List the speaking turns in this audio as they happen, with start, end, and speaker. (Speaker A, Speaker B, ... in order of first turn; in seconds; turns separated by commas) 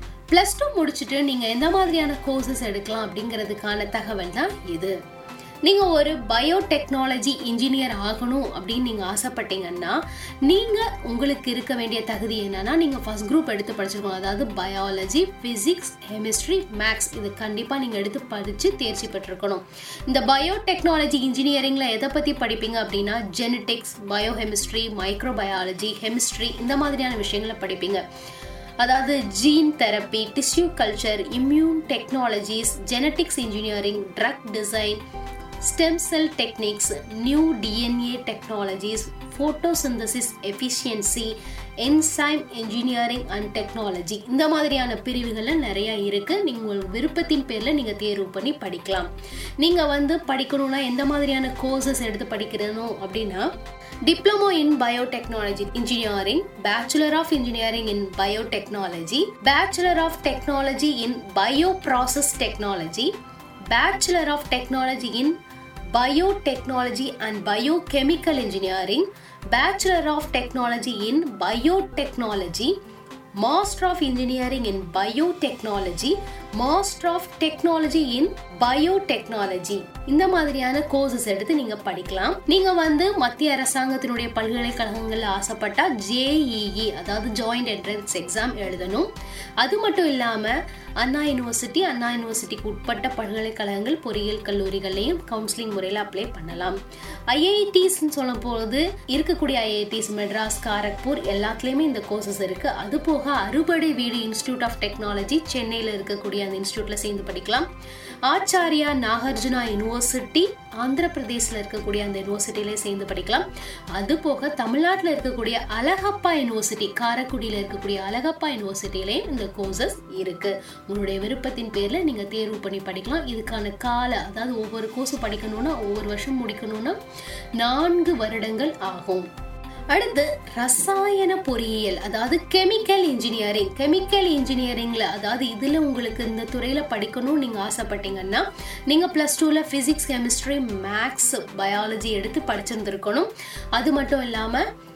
Speaker A: 0.3-4.9, Speaker A: 5.6-28.0, Speaker A: 28.8-35.0, Speaker A: 35.6-53.5, Speaker A: 54.0-63.1, Speaker A: 63.7-65.3, Speaker A: 65.9-72.7, Speaker A: 73.4-89.1, Speaker A: 89.6-96.8, Speaker A: 97.3-107.7, Speaker A: 108.3-127.0, Speaker A: 127.6-129.3, Speaker A: 129.9-144.6